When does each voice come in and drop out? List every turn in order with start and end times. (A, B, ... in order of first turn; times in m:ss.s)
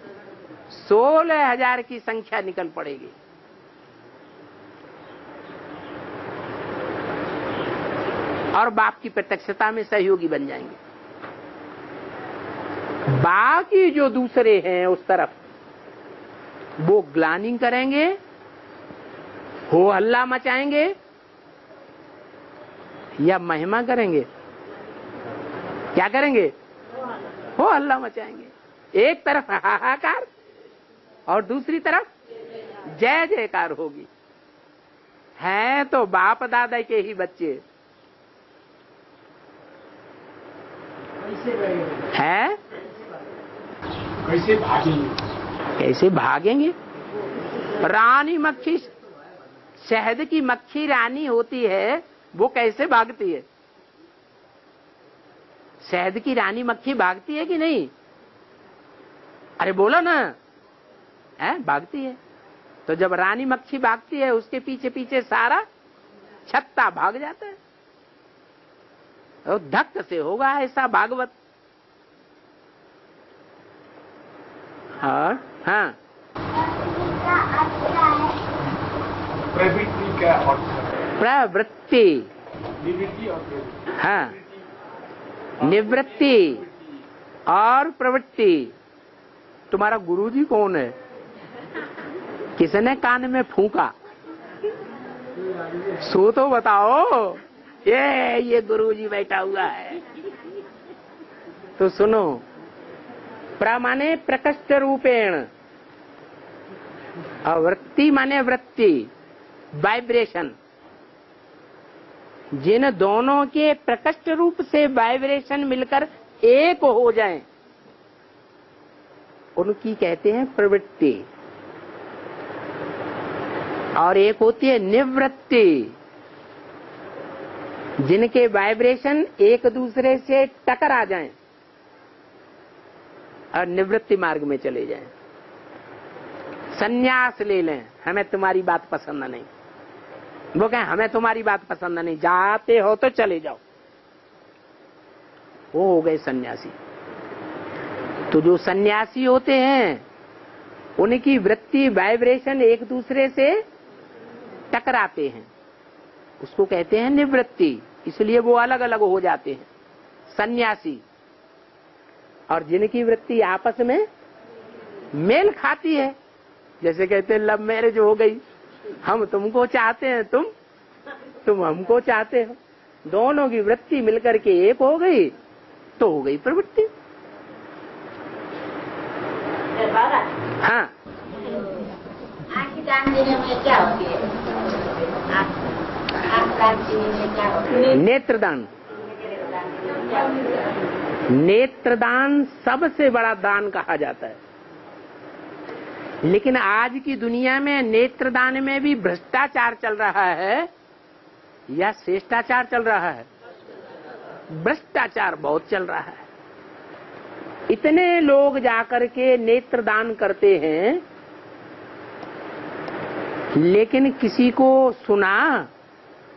0:00.7-0:03.1 A
0:08.5-0:10.8 A
0:13.1-0:15.4 A
0:16.8-0:18.2 A
0:19.7-0:21.0 A
0:23.2-0:24.3 A
0:25.9-0:26.5 A
0:27.6-0:30.3 A
0:31.3-0:32.1 A
0:32.9-0:34.1 A
0:35.4-0:37.6 A
0:42.1-0:42.6 A
0:44.2-0:45.2 B
0:45.8-0:46.7 A
0:47.8-0:48.9 A
0:49.8-0:53.4 A
0:55.8-0:57.9 A
0:59.6-1:00.4 A
1:01.4-1:02.2 A
1:02.9-1:05.6 A
1:06.5-1:07.6 A
1:09.4-1:11.3 A
1:15.0-1:16.0 A
1:16.5-1:18.4 C
1:19.4-1:21.0 B
1:21.2-1:22.3 A
1:22.8-1:23.9 B
1:24.0-1:24.3 A
1:25.6-1:26.6 A
1:27.5-1:28.7 A
1:29.7-1:30.9 A
1:32.6-1:33.9 A
1:36.0-1:40.0 A
1:41.8-1:42.4 A
1:43.6-1:45.5 A
1:47.4-1:49.1 A
1:49.7-1:50.5 A
1:52.5-1:57.4 A
1:59.6-2:01.2 A
2:04.0-2:05.9 A
2:08.0-2:11.3 A
2:13.5-2:15.1 A
2:16.7-2:19.5 A
2:20.5-2:23.6 A
2:25.7-2:26.7 A
2:28.3-2:30.0 A
2:31.0-2:33.6 A
2:34.7-2:35.5 A
2:36.4-2:39.7 A
2:40.3-2:41.0 A
2:42.5-2:44.1 A
2:45.1-2:46.2 A
2:46.8-2:48.4 A
2:49.0-2:50.5 A
2:51.4-2:55.3 A
2:56.0-2:56.9 A
2:59.7-3:00.3 C
3:00.6-3:00.9 A
3:02.5-3:04.6 C
3:05.3-3:08.0 C
3:07.8-3:08.7 A
3:08.9-3:10.7 C
3:11.3-3:14.4 A
3:16.2-3:20.7 A
3:21.7-3:23.3 A
3:24.5-3:26.3 A
3:27.7-3:31.0 A
3:33.6-3:35.7 A